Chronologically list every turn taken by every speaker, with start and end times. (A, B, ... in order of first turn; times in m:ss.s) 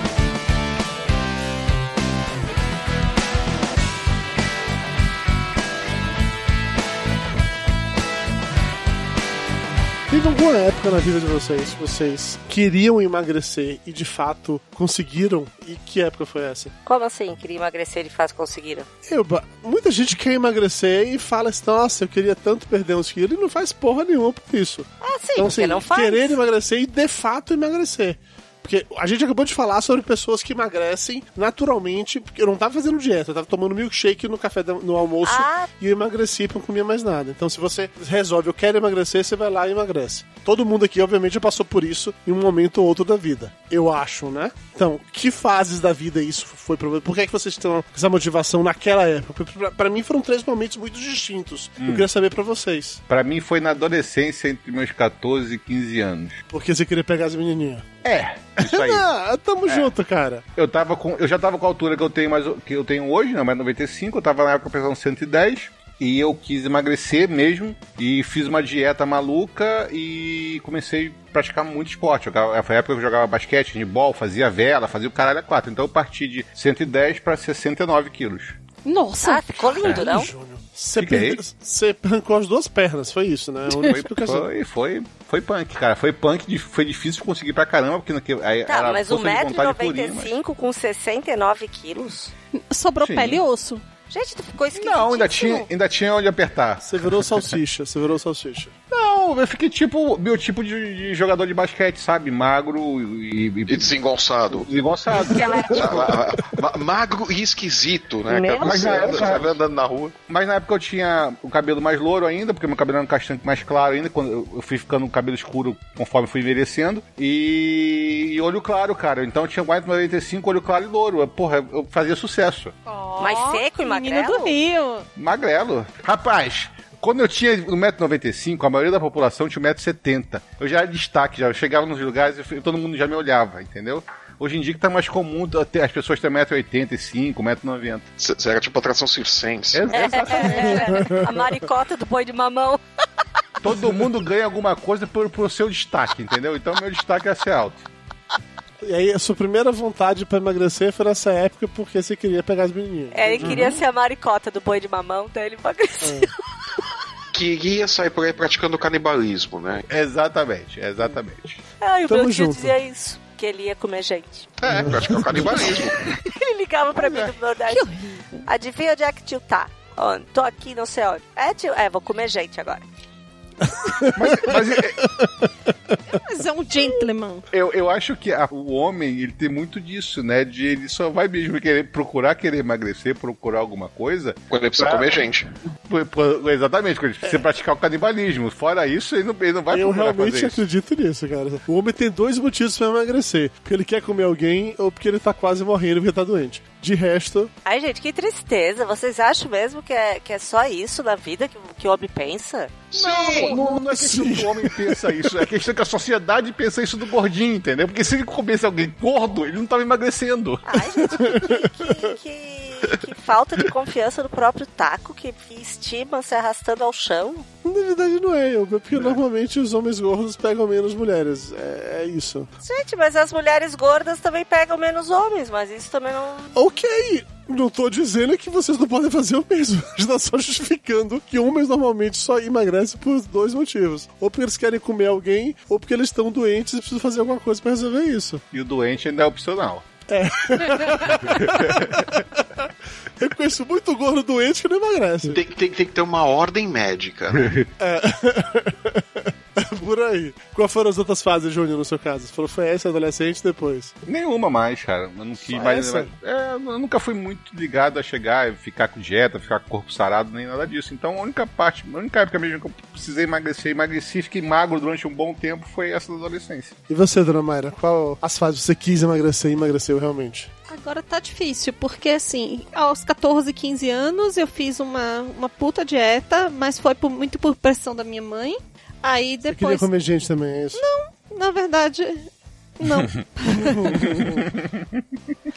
0:10.1-0:16.7 A
0:16.8-0:18.9 B
0:19.1-0:53.0 A
0:25.0-0:26.4 B
0:35.2-0:35.7 B
0:51.8-0:52.1 C
0:53.1-0:56.4 C
0:56.5-0:57.8 A
0:58.0-0:59.1 C
0:58.6-1:00.4 A
0:59.6-0:59.9 C
1:00.6-1:18.6 C
1:18.8-1:19.6 D
1:19.2-1:20.3 B
1:19.6-1:24.5 A
1:21.0-1:21.4 C
1:23.7-1:30.3 C
1:28.7-1:32.3 B
1:32.7-1:33.8 D
1:33.0-1:33.4 C
1:34.1-1:35.7 B
1:34.8-1:36.8 C
1:36.8-1:38.7 A
1:38.9-1:43.9 C
1:43.7-1:44.7 E
1:44.6-1:46.2 C
1:45.1-1:45.8 B
1:45.7-1:50.1 E
1:48.3-1:49.2 B
1:48.6-1:49.6 C
1:50.3-2:02.7 C
2:02.8-2:05.0 D
2:03.2-2:04.5 B
2:05.2-2:18.0 C
2:18.2-2:20.0 E
2:19.7-2:21.1 C
2:19.9-2:22.8 B
2:20.6-2:21.2 A
2:23.6-2:27.8 C
2:28.8-2:33.7 A
2:33.1-2:36.3 B
2:36.0-2:36.3 A
2:37.3-2:39.8 E
2:39.9-2:41.6 C
2:41.8-2:44.5 B
2:42.1-2:42.7 A
2:44.6-2:46.0 E
2:44.7-2:45.6 A
2:45.4-2:47.8 B
2:47.7-2:48.4 D
2:48.4-2:52.8 B
2:53.7-2:55.3 A
2:54.1-2:55.0 C
2:56.1-2:57.5 D
2:57.5-3:05.2 C
3:04.5-3:05.4 E
3:05.9-3:10.6 C
3:09.7-3:17.5 A
3:17.6-3:23.6 B
3:22.9-3:23.5 E
3:23.0-3:30.6 C
3:23.5-3:25.3 A
3:30.6-3:37.4 B
3:31.1-3:31.7 A
3:37.6-3:42.5 A
3:38.9-3:39.2 C
3:42.6-3:46.5 B
3:46.5-3:58.4 A
3:58.5-3:59.8 C
4:00.1-4:02.2 A
4:01.4-4:01.7 C
4:03.2-4:05.4 A
4:05.3-4:07.6 E
4:07.8-4:14.0 A
4:14.0-4:26.7 C
4:15.4-4:16.1 A
4:26.9-4:30.5 A
4:30.7-4:39.9 D
4:39.5-4:40.8 A
4:40.7-4:44.1 D
4:43.5-4:44.4 A